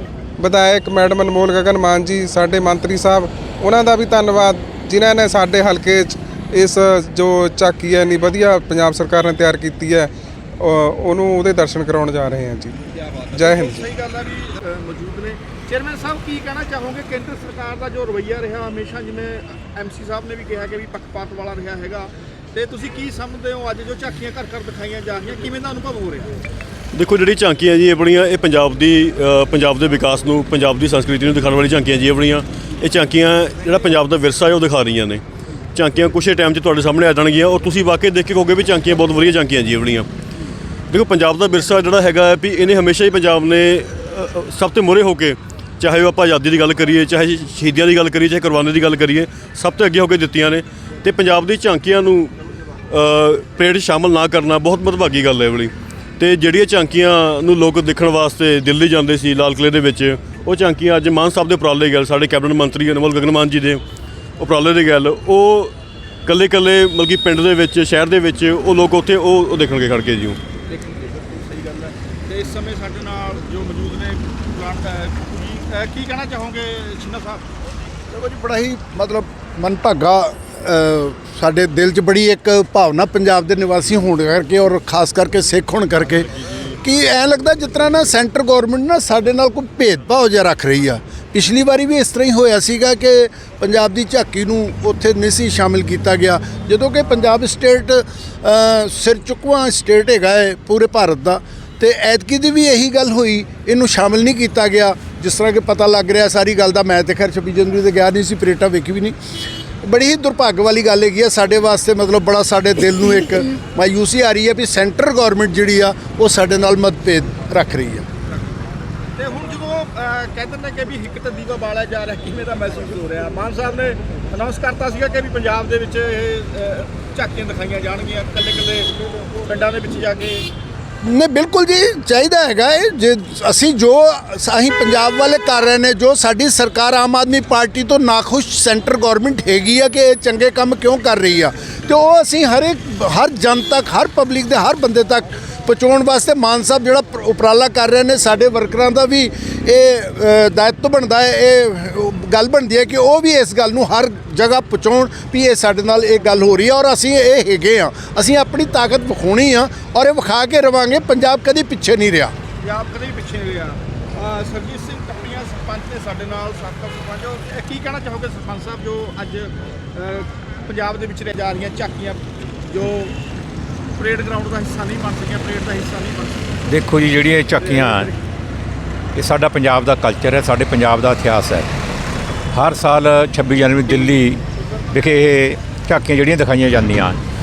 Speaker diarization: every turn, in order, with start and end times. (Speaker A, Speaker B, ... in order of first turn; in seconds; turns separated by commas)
Speaker A: 0.4-13.9, Speaker B: 13.0-26.3, Speaker C: 26.9-35.2, Speaker C: 35.7-40.1, Speaker C: 40.9-52.3, Speaker C: 52.9-63.8, Speaker C: 64.4-65.7, Speaker C: 66.2-70.4, Speaker B: 70.8-77.4, Speaker D: 78.1-109.2, Speaker D: 109.8-118.0, Speaker B: 119.2-128.9, Speaker B: 129.4-130.4, Speaker D: 131.0-162.3, Speaker B: 162.6-173.1, Speaker B: 174.0-176.4, Speaker E: 176.7-178.1, Speaker B: 177.6-178.1, Speaker E: 179.2-181.7, Speaker E: 182.5-187.2